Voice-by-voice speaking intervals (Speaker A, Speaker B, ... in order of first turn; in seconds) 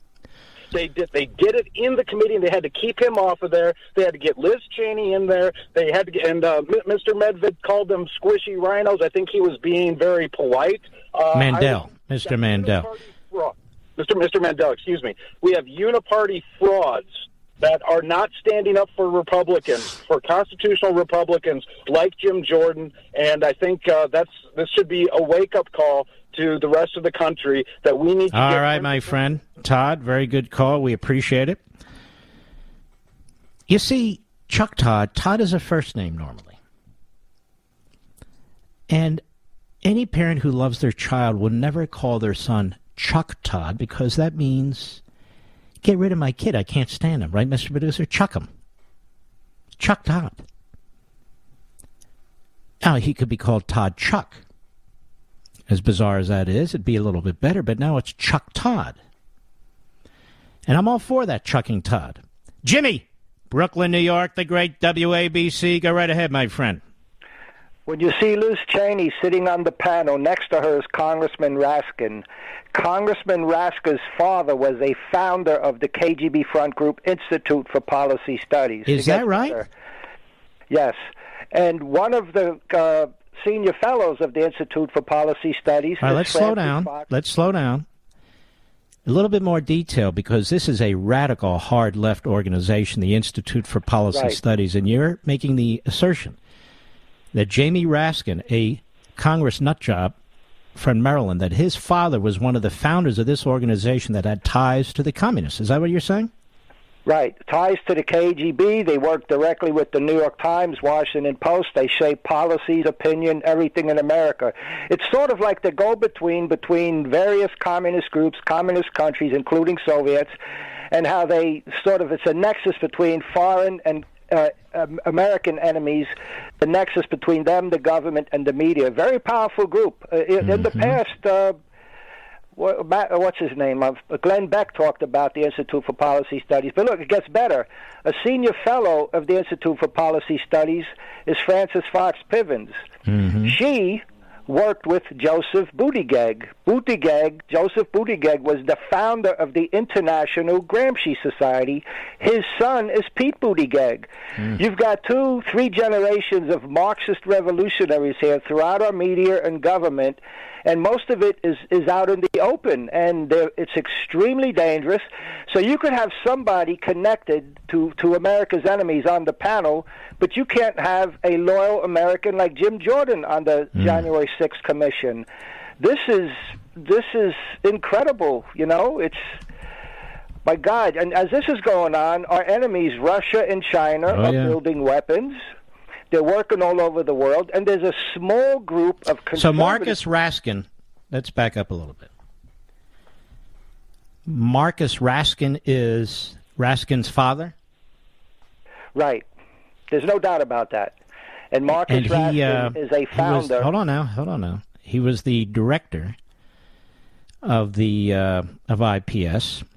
Speaker A: 0.7-29.2
Speaker B: 11.3-12.9, 28.3-31.6, 33.7-36.6, 38.9-39.2, 39.8-45.0, 45.8-48.5, 49.8-50.4, 52.8-54.4, 55.7-59.0, 60.7-66.8, 78.8-79.7, 86.0-87.8, 89.0-96.4, 97.3-100.1, 100.8-106.3, 130.4-130.9, 143.1-143.6, 173.8-174.0, 184.1-184.6, 189.3-192.1, 194.3-197.5, 201.9-206.2, 207.4-209.6
Speaker C: 67.9-79.7, 80.7-81.0, 81.5-87.1, 94.1-94.4, 107.0-120.3, 120.9-131.6, 132.6-142.7, 143.4-175.3, 175.8-179.2, 180.4-185.4, 186.1-190.0, 198.9-199.2, 199.9-200.9, 201.5-203.7